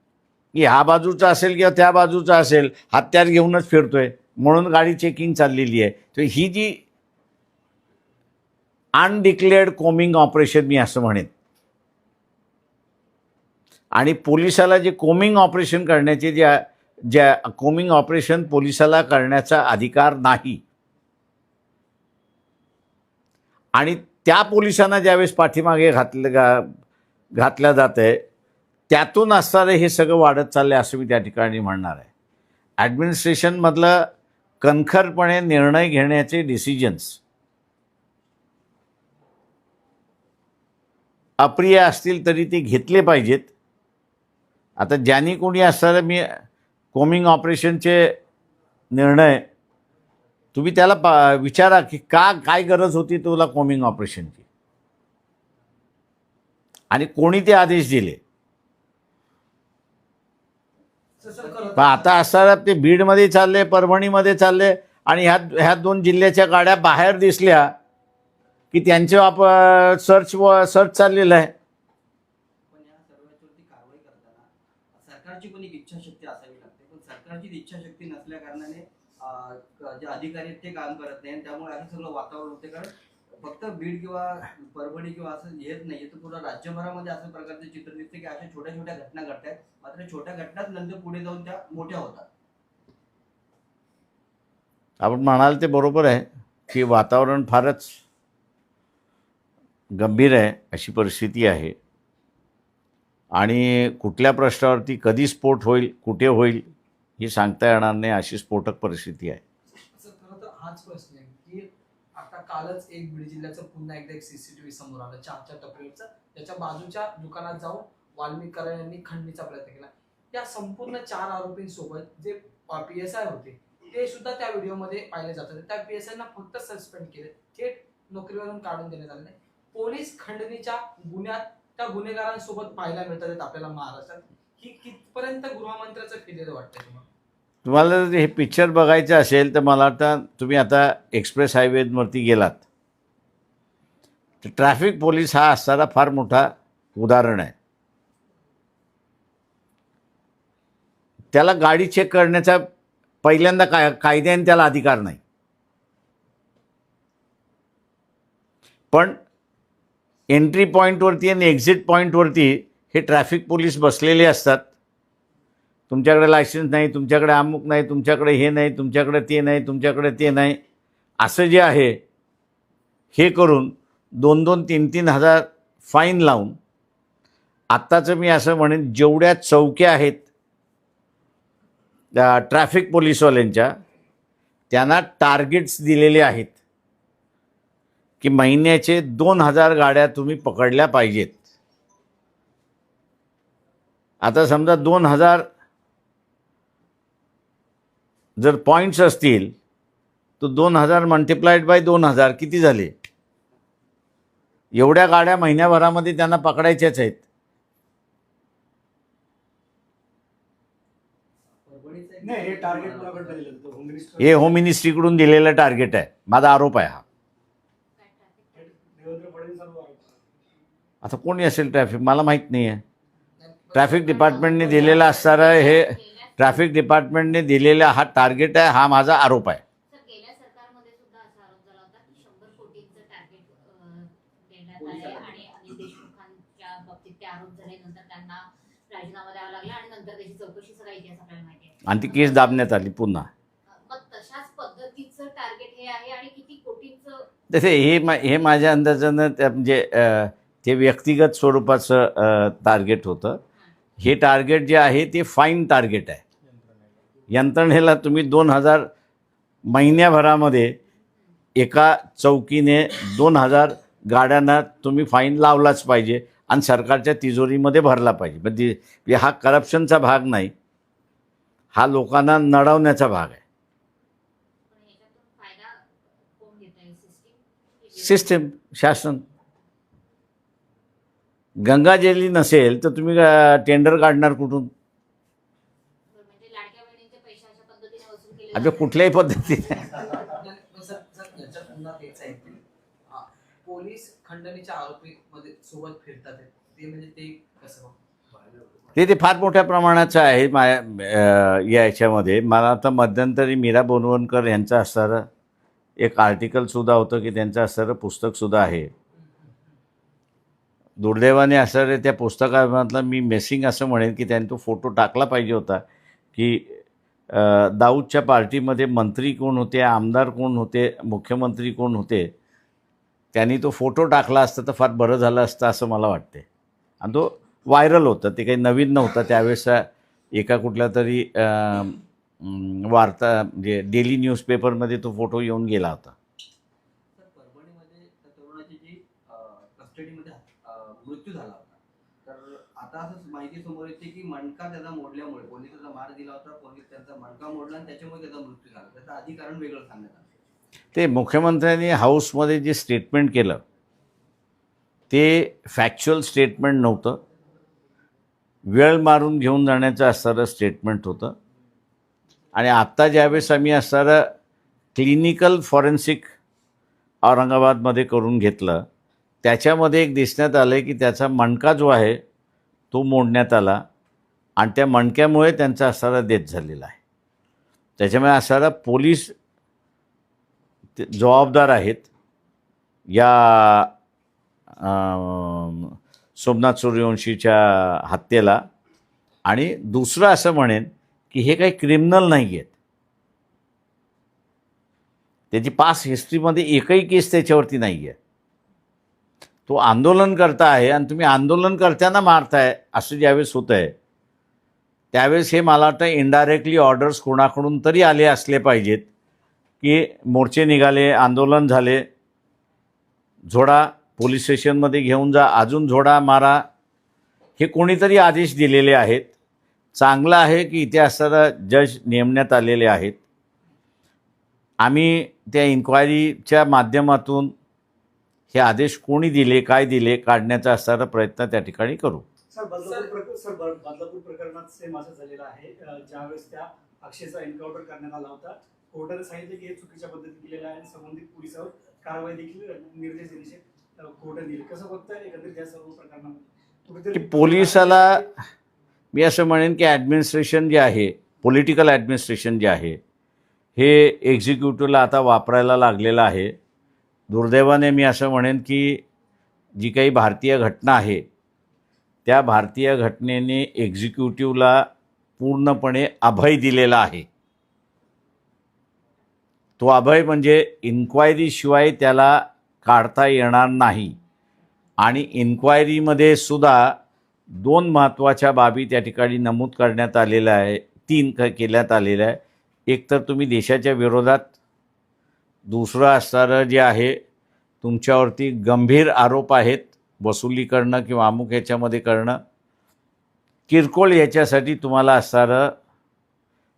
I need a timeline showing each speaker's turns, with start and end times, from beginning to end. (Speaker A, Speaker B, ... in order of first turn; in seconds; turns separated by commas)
Speaker A: 0.5-6.8, Speaker A: 8.9-11.3, Speaker A: 13.9-20.6, Speaker A: 23.7-26.7, Speaker A: 27.4-28.2, Speaker A: 28.9-32.1, Speaker A: 32.8-34.1, Speaker A: 34.6-37.2, Speaker A: 41.4-43.5, Speaker A: 44.8-46.4, Speaker A: 46.9-48.2, Speaker A: 48.9-49.4, Speaker A: 50.5-54.4, Speaker A: 56.9-58.2, Speaker B: 61.2-62.1, Speaker C: 61.3-62.0, Speaker A: 61.8-67.7, Speaker A: 68.7-71.5, Speaker C: 72.7-92.3, Speaker A: 95.0-98.0, Speaker A: 99.9-101.7, Speaker A: 103.3-109.4, Speaker B: 109.7-137.1, Speaker A: 137.6-142.6, Speaker A: 144.4-147.5, Speaker A: 151.3-152.7, Speaker A: 153.2-155.2, Speaker A: 158.9-159.2, Speaker A: 160.3-164.7, Speaker A: 165.9-170.6, Speaker A: 171.2-172.0, Speaker A: 173.1-176.6, Speaker A: 177.7-180.2, Speaker A: 182.1-183.7, Speaker A: 184.7-186.5, Speaker A: 188.2-191.4, Speaker A: 194.2-195.5, Speaker A: 198.4-199.5, Speaker A: 200.4-202.9, Speaker A: 204.7-207.2, Speaker C: 211.6-213.4, Speaker D: 212.2-214.6, Speaker A: 214.2-217.0, Speaker E: 218.0-218.8, Speaker D: 218.5-220.2, Speaker A: 221.0-222.8, Speaker B: 223.4-225.4, Speaker A: 223.7-229.6, Speaker E: 223.9-226.6, Speaker E: 229.9-242.6, Speaker A: 241.8-243.3, Speaker E: 243.7-247.3, Speaker A: 247.5-253.4, Speaker A: 254.0-256.2, Speaker A: 257.3-258.9, Speaker A: 259.7-260.8, Speaker A: 261.6-270.5, Speaker A: 271.7-273.4, Speaker E: 274.7-278.2, Speaker A: 277.9-279.2, Speaker A: 281.6-284.7, Speaker E: 286.1-289.1, Speaker A: 288.5-290.0, Speaker B: 289.9-297.9, Speaker C: 298.3-299.0, Speaker A: 298.9-305.3, Speaker A: 306.0-308.9, Speaker A: 311.0-322.3, Speaker A: 323.3-326.4, Speaker A: 327.0-336.1, Speaker C: 337.1-350.3, Speaker A: 350.9-353.6, Speaker A: 355.1-357.2, Speaker A: 358.7-361.3, Speaker A: 362.5-364.3, Speaker A: 364.9-366.3, Speaker A: 367.2-368.9, Speaker A: 369.4-372.2, Speaker A: 372.9-373.8, Speaker A: 374.6-377.0, Speaker A: 378.0-379.3, Speaker A: 380.9-382.1, Speaker A: 383.1-383.9, Speaker A: 384.8-388.6, Speaker A: 389.4-392.7, Speaker A: 395.5-398.1, Speaker A: 399.7-403.9, Speaker A: 405.1-409.0, Speaker A: 409.8-412.1, Speaker A: 413.5-416.6, Speaker A: 417.6-419.3, Speaker A: 419.9-423.2, Speaker A: 424.8-427.5, Speaker A: 428.5-432.2, Speaker D: 432.5-448.3, Speaker B: 432.8-433.1, Speaker A: 447.1-448.2, Speaker A: 449.1-453.0, Speaker A: 453.8-456.6, Speaker A: 457.3-459.0, Speaker A: 459.8-461.2, Speaker A: 462.2-464.9, Speaker A: 465.4-467.2, Speaker A: 469.8-474.1, Speaker A: 475.0-476.9, Speaker A: 477.5-484.5, Speaker A: 485.7-487.2, Speaker A: 487.8-492.4, Speaker A: 493.7-495.7